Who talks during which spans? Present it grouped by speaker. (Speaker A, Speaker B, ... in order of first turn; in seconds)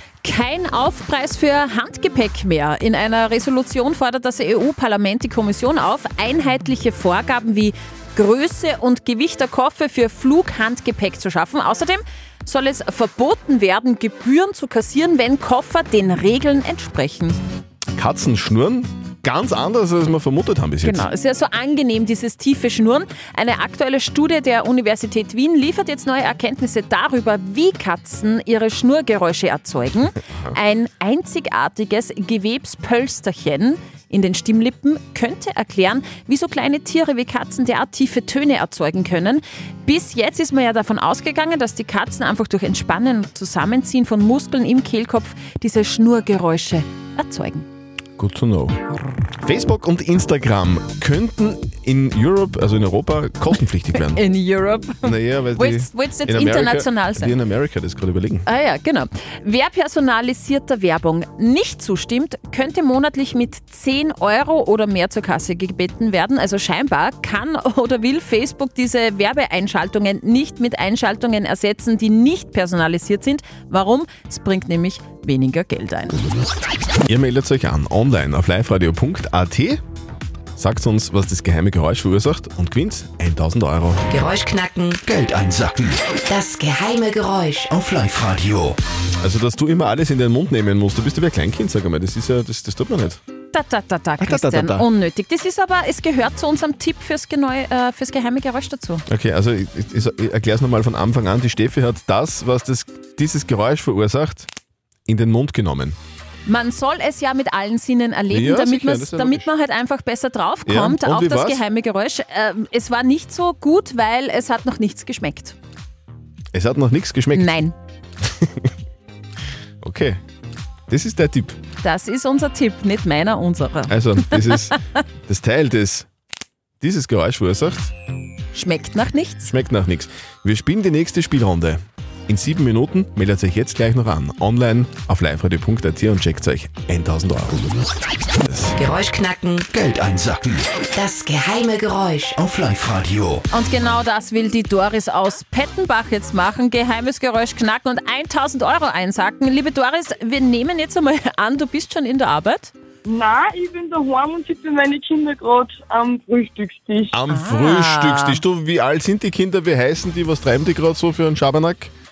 Speaker A: 0.2-17.4, 20.8-47.7, 54.0-57.3, 58.5-76.2, 93.5-99.0, 106.5-115.6, 117.3-117.7, 121.8-124.4, 128.5-129.5, 143.5-152.7, 157.3-158.4
Speaker B: 18.0-21.1, 48.2-48.8, 49.4-54.2, 55.0-58.5, 77.1-79.8, 80.6-84.0, 89.2-93.2, 94.2-94.9, 99.1-104.5, 105.1-106.0, 108.3-109.5, 110.7-111.6, 116.5-117.6, 118.4-118.7, 119.8-120.2, 120.9-121.6, 123.9-124.8, 125.3-126.1, 126.8-127.9, 129.4-137.7, 138.4-138.8, 157.1-161.9
Speaker C: 84.2-84.9, 86.3-87.5, 138.8-139.6, 141.0-142.3
Speaker D: 85.0-86.2, 87.7-88.8, 139.7-140.9, 142.3-143.4
Speaker E: 153.1-157.2